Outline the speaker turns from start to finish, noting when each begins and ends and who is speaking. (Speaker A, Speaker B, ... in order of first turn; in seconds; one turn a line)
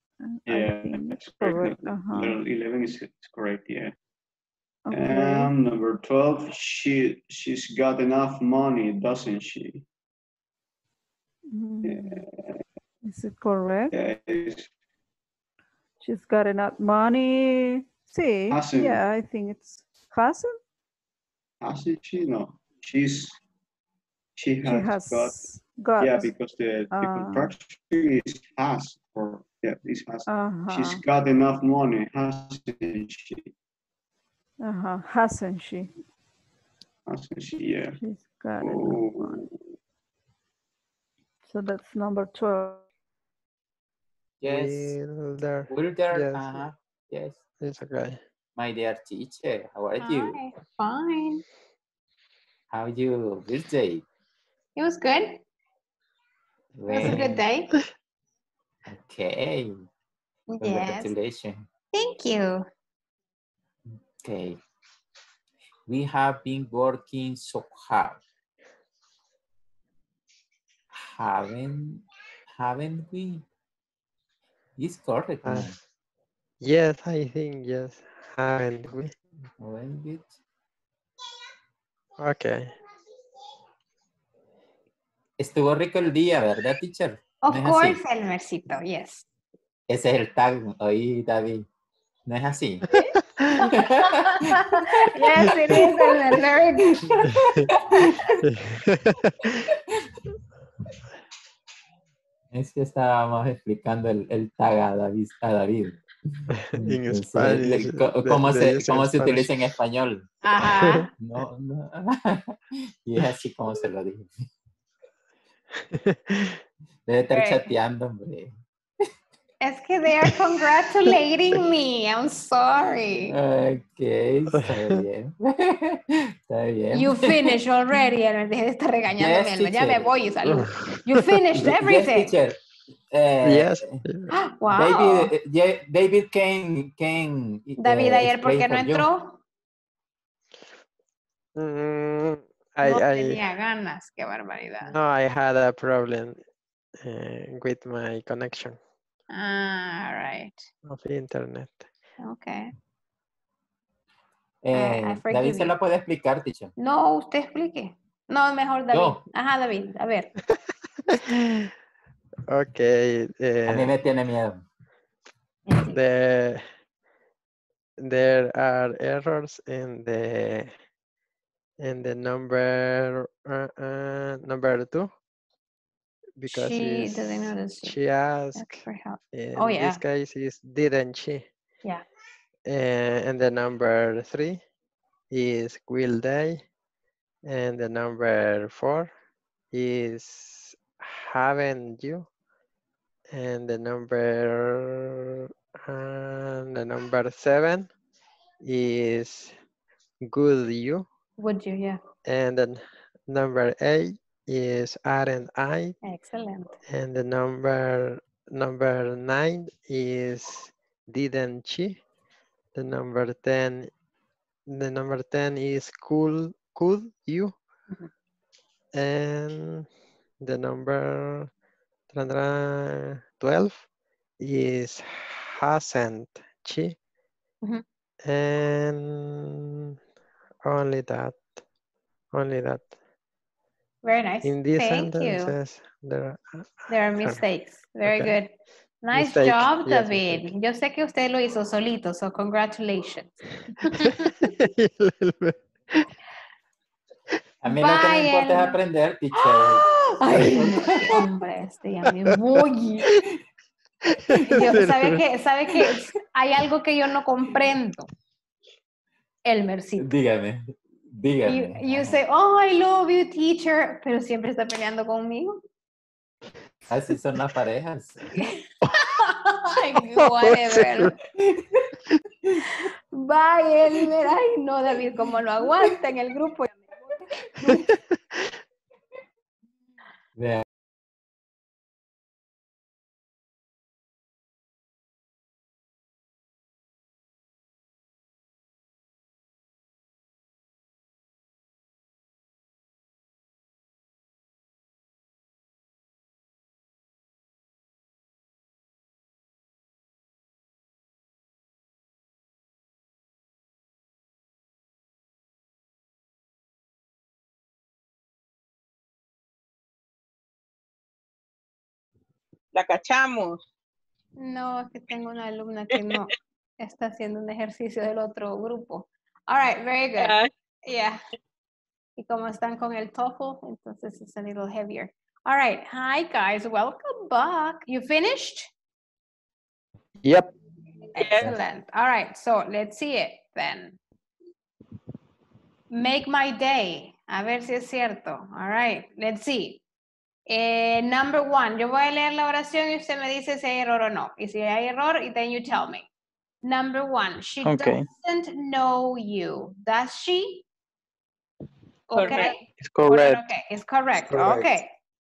Speaker A: 0.2-2.4
Speaker B: 0.5-3.9
Speaker A: 4.8-5.5
Speaker B: 4.9-9.8
Speaker A: 11.5-12.2
Speaker B: 11.8-12.6
Speaker A: 13.1-13.9
Speaker B: 13.9-14.7
Speaker A: 16.0-20.6
Speaker B: 18.5-19.0
Speaker B: 21.6-23.4
Speaker B: 24.4-33.5
Speaker A: 24.6-26.3
Speaker A: 26.9-27.5
Speaker A: 30.3-31.0
Speaker A: 34.6-35.9
Speaker B: 37.1-38.0
Speaker A: 38.0-39.5
Speaker B: 38.6-39.4
Speaker A: 41.4-42.9
Speaker C: 44.4-45.0
Speaker D: 44.4-46.6
Speaker C: 45.7-47.4
Speaker D: 47.6-48.2
Speaker C: 48.5-50.4
Speaker E: 50.0-51.4
Speaker C: 52.7-54.0
Speaker E: 54.8-55.4
Speaker C: 56.8-57.4
Speaker E: 56.9-57.7
Speaker C: 58.9-59.7
Speaker E: 60.5-61.1
Speaker C: 60.6-61.7
Speaker E: 61.9-62.7
Speaker C: 64.2-64.6
Speaker C: 65.9-68.2
Speaker C: 70.9-73.4
Speaker C: 74.8-75.8
Speaker D: 75.4-75.7
Speaker D: 76.6-79.2
Speaker C: 79.6-80.3
Speaker D: 82.2-82.7
Speaker C: 85.4-88.0
Speaker E: 87.4-89.2
Speaker C: 89.9-91.7
Speaker C: 92.3-92.9
Speaker D: 92.9-93.6
Speaker E: 92.9-97.3
Speaker C: 93.7-95.0
Speaker D: 95.4-95.8
Speaker C: 97.2-98.3
Speaker D: 97.2-97.7
Speaker D: 98.4-99.6
Speaker C: 102.5-106.0
Speaker D: 106.5-109.5
Speaker C: 106.8-110.2
Speaker E: 110.4-111.1
Speaker D: 110.8-111.0
Speaker C: 111.2-114.3
Speaker D: 115.8-116.6
Speaker C: 117.1-118.5
Speaker E: 117.3-117.7
Speaker E: 119.6-123.3
Speaker C: 123.3-127.5
Speaker D: 124.5-125.0
Speaker E: 126.9-132.3
Speaker C: 129.2-130.1
Speaker D: 130.6-131.2
Speaker C: 131.7-132.6
Speaker C: 133.1-134.0
Speaker D: 133.4-134.3
Speaker E: 134.3-135.3
Speaker C: 134.7-139.1
Speaker E: 137.8-139.4
Speaker D: 141.6-143.4
Speaker E: 142.8-144.9
Speaker D: 144.9-146.4
Speaker D: 147.0-148.8
Speaker E: 149.3-150.6
Speaker D: 150.9-151.9
Speaker E: 152.2-152.7
Speaker C: 154.6-156.7
Speaker E: 154.7-155.7
Speaker E: 156.8-160.3
Speaker C: 158.9-159.2
Speaker D: 161.1-161.7
Speaker D: 162.5-163.9
Speaker C: 163.7-164.6
Speaker E: 165.7-165.9
Speaker D: 165.8-166.6
Speaker D: 168.0-170.7
Speaker D: 171.8-175.1
Speaker D: 176.4-181.4
Speaker E: 176.5-178.0
Speaker E: 178.6-180.0
Speaker D: 182.7-184.6
Speaker D: 185.3-186.6
Speaker D: 187.4-189.1
Speaker D: 189.7-192.3
Speaker D: 193.3-197.9
Speaker D: 198.6-199.5
Speaker D: 200.3-201.1
Speaker E: 201.4-202.0
Speaker D: 202.2-205.9
Speaker E: 206.0-206.7
Speaker D: 206.9-212.0
Speaker D: 212.8-213.9
Speaker D: 214.7-217.6
Speaker D: 218.9-219.9
Speaker D: 220.4-221.5
Speaker D: 222.1-223.8
Speaker D: 224.4-226.9
Speaker D: 228.2-229.9
Speaker D: 230.6-231.4
Speaker D: 232.3-232.9
Speaker E: 234.0-235.5
Speaker D: 234.4-237.4
Speaker E: 236.9-238.5
Speaker D: 238.0-238.3
Speaker E: 239.0-244.3
Speaker D: 239.1-240.5
Speaker D: 243.9-246.1
Speaker C: 247.6-251.2
Speaker E: 247.8-248.8
Speaker E: 249.3-253.1
Speaker D: 252.1-252.4
Speaker D: 254.1-255.2
Speaker E: 254.4-258.1
Speaker E: 259.4-260.1
Speaker C: 260.0-262.2
Speaker E: 261.5-265.6
Speaker C: 266.9-268.2
Speaker E: 268.4-271.1
Speaker D: 270.1-271.1
Speaker E: 273.1-276.9
Speaker E: 277.6-277.8
Speaker D: 277.6-278.0
Speaker C: 280.4-280.6
Speaker F: 312.7-313.6
Speaker E: 314.4-321.2
Speaker F: 320.2-320.5
Speaker E: 322.2-328.7
Speaker G: 330.2-330.5
Speaker E: 331.1-334.0
Speaker F: 331.2-331.5
Speaker E: 335.9-339.8
Speaker E: 340.5-346.1
Speaker E: 346.6-350.6
Speaker G: 347.6-348.1
Speaker E: 352.1-354.9
Speaker F: 352.1-352.6
Speaker G: 352.8-353.4
Speaker G: 354.3-354.8